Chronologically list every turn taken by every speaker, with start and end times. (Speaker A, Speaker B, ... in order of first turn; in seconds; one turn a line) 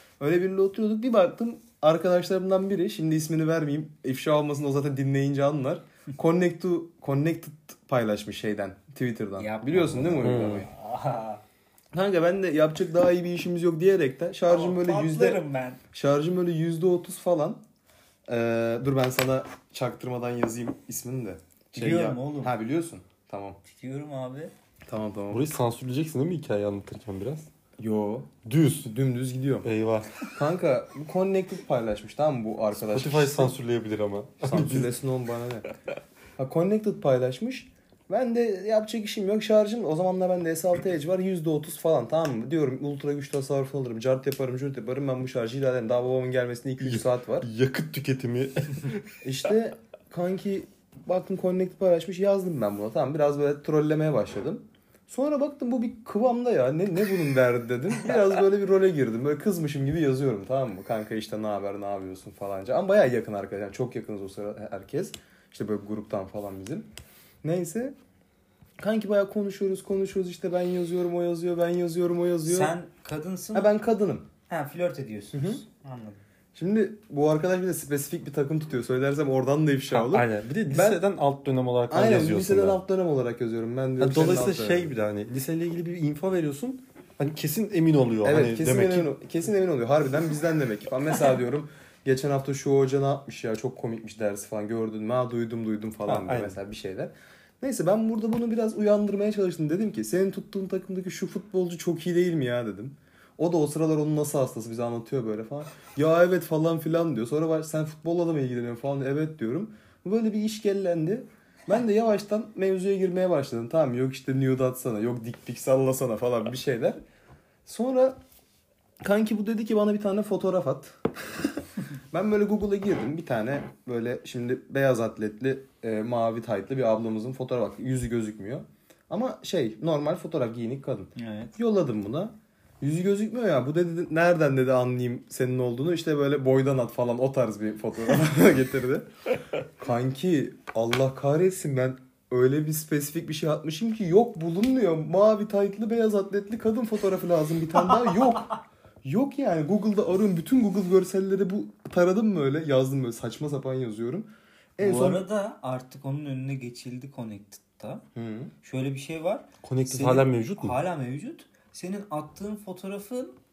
Speaker A: 0.2-10.7
Speaker B: 9.4-11.4
Speaker C: 10.2-10.7
Speaker A: 11.9-17.6
Speaker B: 14.5-15.8
Speaker A: 18.3-23.6
Speaker B: 21.7-22.5
Speaker B: 23.6-24.5
Speaker A: 24.9-25.5
Speaker C: 25.3-27.5
Speaker A: 27.8-28.3
Speaker C: 28.4-28.9
Speaker A: 28.9-29.7
Speaker C: 29.6-30.3
Speaker A: 30.3-33.5
Speaker C: 32.8-34.9
Speaker A: 34.4-35.7
Speaker A: 36.4-47.5
Speaker C: 46.8-49.1
Speaker A: 49.2-66.9
Speaker A: 67.4-68.0
Speaker A: 68.8-72.8
Speaker B: 72.5-73.7
Speaker A: 73.5-74.3
Speaker B: 74.5-76.2
Speaker A: 75.3-75.6
Speaker A: 76.5-81.0
Speaker C: 79.9-82.8
Speaker A: 81.9-84.9
Speaker C: 84.0-89.1
Speaker A: 88.2-117.0
Speaker C: 96.1-96.6
Speaker A: 117.7-118.2
Speaker A: 119.0-121.0
Speaker A: 122.1-139.1
Speaker B: 131.2-131.6
Speaker A: 139.6-155.2
Speaker B: 154.8-158.1
Speaker A: 158.2-158.5
Speaker B: 158.6-163.4
Speaker C: 159.6-160.8